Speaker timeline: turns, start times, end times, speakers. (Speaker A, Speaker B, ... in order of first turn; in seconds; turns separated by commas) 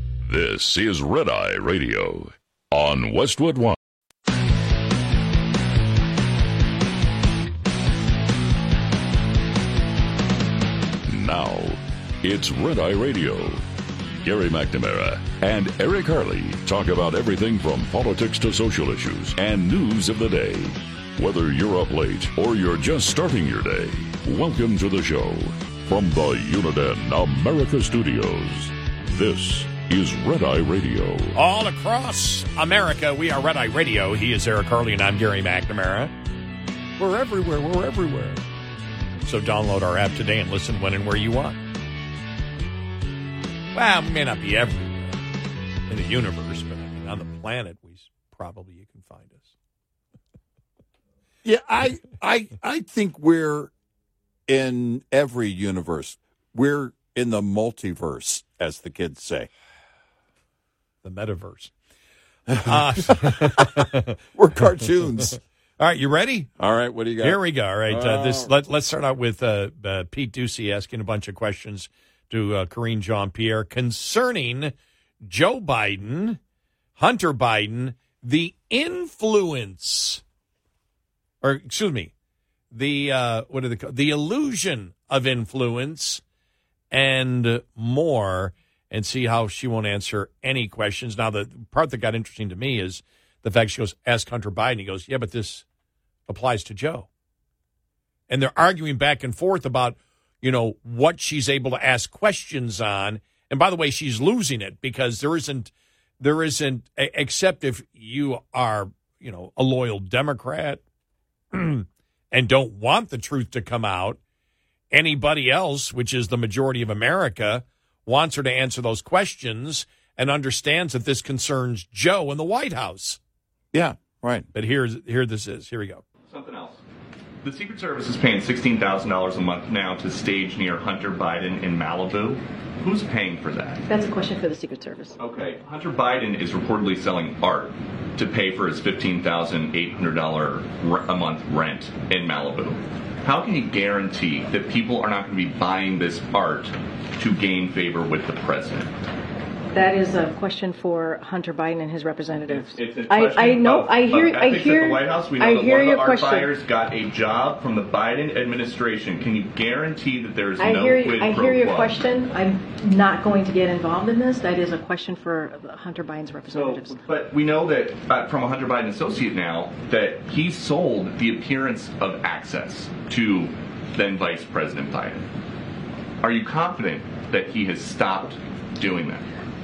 Speaker A: 0.2-3.8, Speaker A: 11.1-13.7, Speaker A: 14.2-31.4, Speaker B: 31.3-36.1, Speaker B: 37.0-38.4, Speaker B: 39.2-41.7, Speaker B: 43.7-45.2, Speaker B: 45.9-49.5, Speaker C: 51.4-53.7, Speaker C: 54.5-59.5, Speaker B: 61.0-61.7, Speaker C: 62.5-65.4, Speaker B: 62.6-64.2, Speaker B: 65.8-66.5, Speaker C: 66.6-68.5, Speaker B: 67.2-76.4, Speaker B: 77.0-80.2, Speaker B: 81.4-82.1, Speaker B: 82.7-86.2, Speaker B: 86.9-95.7, Speaker B: 96.3-97.1, Speaker B: 98.3-110.8, Speaker B: 111.5-114.2, Speaker B: 114.9-123.2, Speaker C: 123.7-124.5, Speaker B: 124.5-126.0, Speaker D: 126.3-126.8, Speaker D: 127.4-133.8, Speaker E: 133.9-135.2, Speaker D: 135.2-148.9, Speaker E: 149.7-156.5, Speaker D: 152.4-162.0, Speaker E: 160.6-167.1, Speaker D: 166.5-175.3, Speaker D: 176.2-179.3